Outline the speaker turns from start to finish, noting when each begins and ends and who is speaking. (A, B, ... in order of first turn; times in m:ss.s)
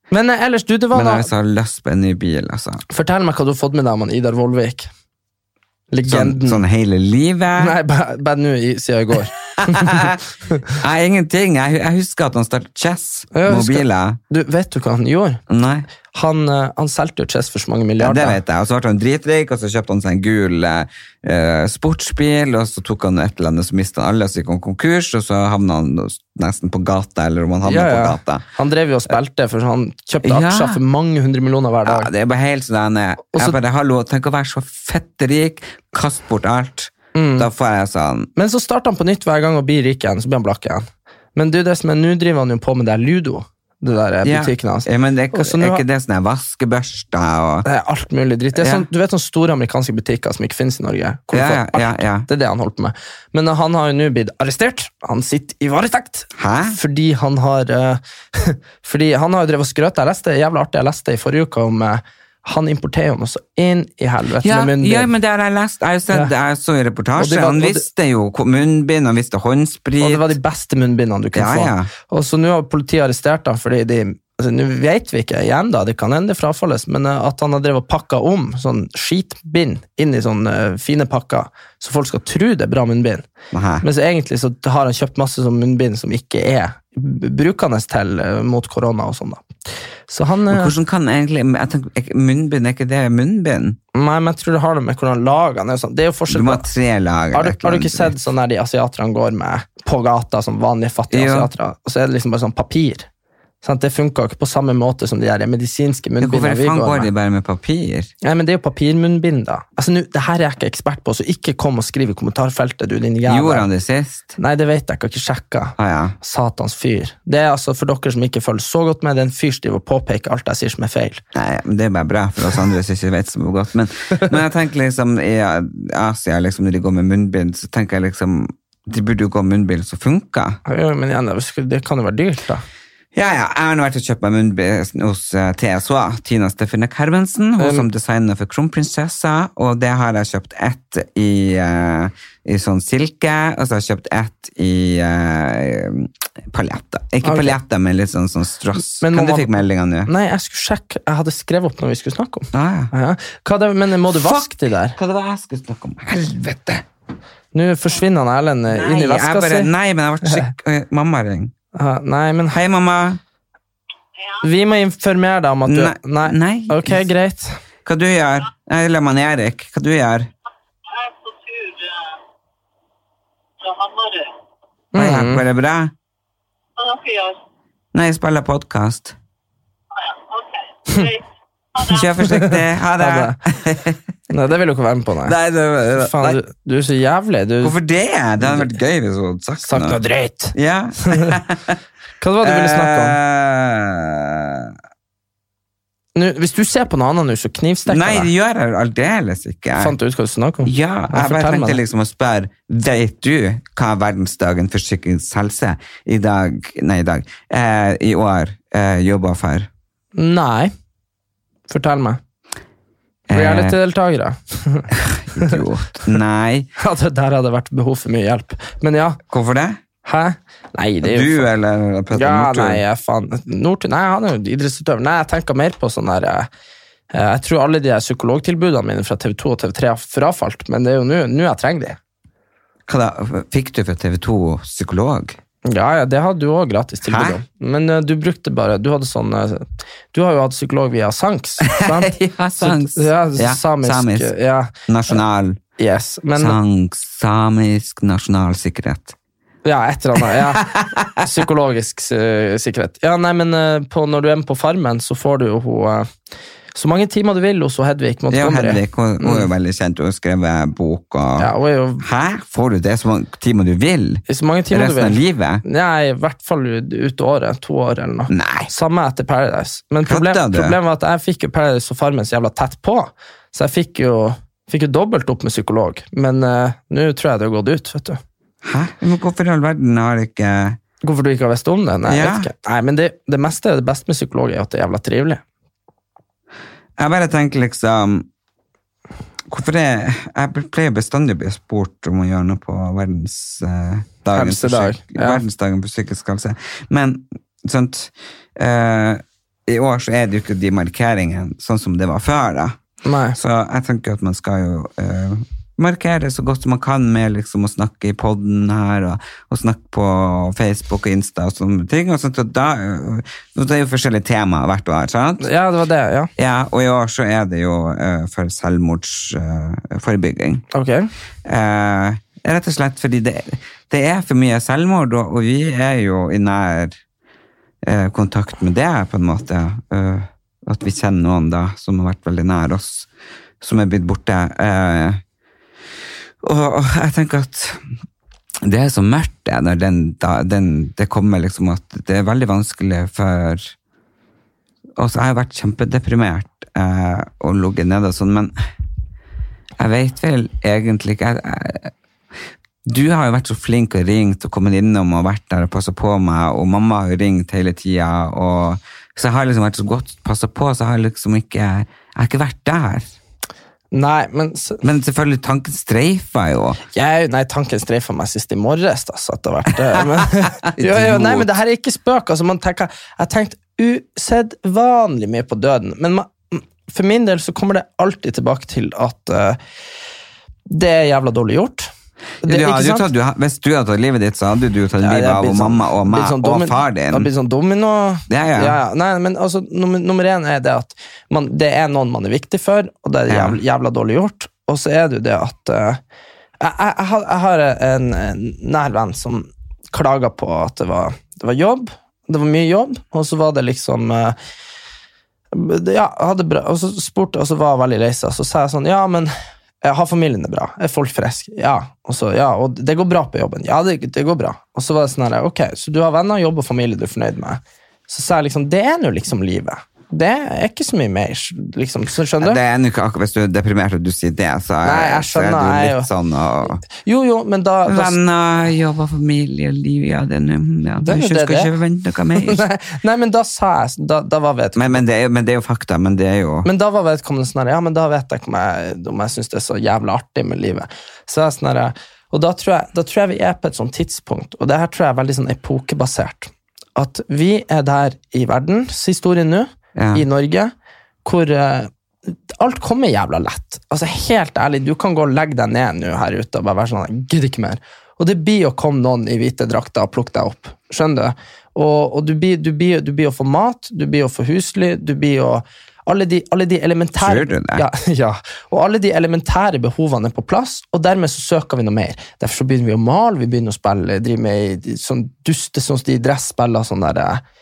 0:00.1-0:01.3 A
0:00.9-0:02.8 B
0:02.9-0:04.9 A
0:05.9-0:06.6 A
0:06.0-0:07.7 B
0:07.6-0:10.6 A
0:09.6-0:10.2 B
0:10.7-0:14.2 B
0:13.3-0:15.4 A
0:15.5-0:15.9 B
0:16.1-0:18.4 A
0:18.0-0:28.4 B
0:27.6-0:32.1 A
0:30.2-0:30.8 B
0:31.8-0:38.3 B
0:33.3-0:33.6 A
0:37.1-0:37.5 A
0:38.4-0:45.8 A
0:44.2-0:47.6 B
0:47.6-1:05.1 A
0:48.5-0:48.8 B
0:51.3-0:52.3 B
0:56.4-0:56.8 B
1:04.4-1:10.3 B
1:07.2-1:07.8 A
1:10.0-1:23.3 A
1:11.3-1:11.9 B
1:23.5-1:23.8 B
1:23.8-1:29.4 A
1:30.1-1:30.7 A
1:30.5-1:33.8 B
1:33.9-1:36.6 A
1:36.3-1:38.1 B
1:37.3-1:43.1 A
1:41.1-1:41.5 B
1:43.6-1:47.1 A
1:46.2-1:48.1 B
1:48.2-1:53.7 A
1:53.3-1:54.4 B
1:54.4-2:01.2 A
1:55.8-1:56.2 B
2:01.3-2:10.6 B
2:10.6-2:12.6 A
2:13.1-2:30.1 B
2:17.6-2:17.8 A
2:27.2-2:27.5 A
2:29.0-2:35.0 A
2:32.5-2:32.9 B
2:34.1-2:36.8 B
2:37.5-2:39.7 A
2:38.7-2:41.5 B
2:41.7-2:42.6 A
2:42.5-2:43.2 B
2:44.4-2:47.6 A
2:45.6-2:47.0 B
2:47.8-2:50.3 B
2:50.9-2:52.1 C
2:53.6-2:54.3 C
2:54.9-2:55.4 A
2:54.9-2:55.9 B
2:56.8-2:57.4 C
2:57.9-2:59.2 B
3:00.0-3:01.2 C
3:01.7-3:02.1 C
3:01.8-3:04.0 B
3:02.2-3:03.4 A
3:04.3-3:05.4 A
3:05.2-3:06.4 B
3:05.9-3:07.7 A
3:07.6-3:10.0 B
3:08.4-3:08.7 A
3:09.6-3:11.4 A
3:10.5-3:11.8 B
3:12.2-3:13.2 A
3:12.4-3:14.7 B
3:16.1-3:18.3 A
3:17.9-3:19.9 B
3:19.8-3:21.8 A
3:20.6-3:29.7 B
3:30.2-3:30.7 A
3:31.7-3:32.2 A
3:33.3-3:33.7 B
3:33.3-3:35.6 A
3:34.9-3:36.7 B
3:36.8-3:39.2 A
3:39.3-3:39.8 B
3:40.0-3:41.5 A
3:41.0-3:42.8 B
3:42.1-3:46.5 A
3:47.1-3:52.0 A
3:52.9-3:55.4 B
3:55.6-4:05.2 A
3:57.0-3:57.4 B
4:01.6-4:04.3 B
4:04.9-4:05.6 B
4:05.8-4:06.6 A
4:06.3-4:09.1 B
4:09.6-4:16.1 A
4:10.2-4:11.3 B
4:16.7-4:19.5 A
4:18.3-4:25.6 B
4:21.4-4:22.0 A
4:24.3-4:38.2 A
4:28.3-4:28.7 B
4:30.0-4:30.8 B
4:38.6-4:40.8 B
4:41.0-4:45.4 A
4:42.1-4:42.5 B
4:47.0-4:48.3 B
4:49.5-5:02.8 B
4:54.3-4:55.4 A
5:03.0-5:03.4 A
5:03.3-5:15.5 B
5:15.4-5:16.3 A
5:16.4-5:20.6 B
5:20.7-5:21.1 A
5:21.4-5:27.0 B
5:27.8-5:33.1 B
5:33.6-5:35.2 B
5:36.4-5:37.8 B
5:38.6-5:43.7 B
5:45.0-5:48.5 B
5:49.8-5:51.9 B
5:52.8-6:03.1 B
6:03.9-6:04.8 A
6:04.8-6:06.8 B
6:06.9-6:19.6 A
6:10.2-6:11.5 B
6:20.7-6:21.9 A
6:22.4-6:23.1 A
6:22.4-6:27.3 B
6:25.0-6:36.0 A
6:28.3-6:28.8 B
6:33.3-6:33.6 B
6:36.6-6:44.3 A
6:45.5-6:49.3 A
6:49.8-7:02.6 A
7:02.4-7:06.8 B
7:04.8-7:06.1 A
7:06.9-7:08.2 A
7:07.9-7:12.6 B
7:11.0-7:11.7 A
7:12.3-7:15.0 A
7:14.8-7:16.7 B
7:16.6-7:30.7 A
7:29.9-7:30.2 B
7:31.2-7:57.4 A
7:47.2-7:47.8 B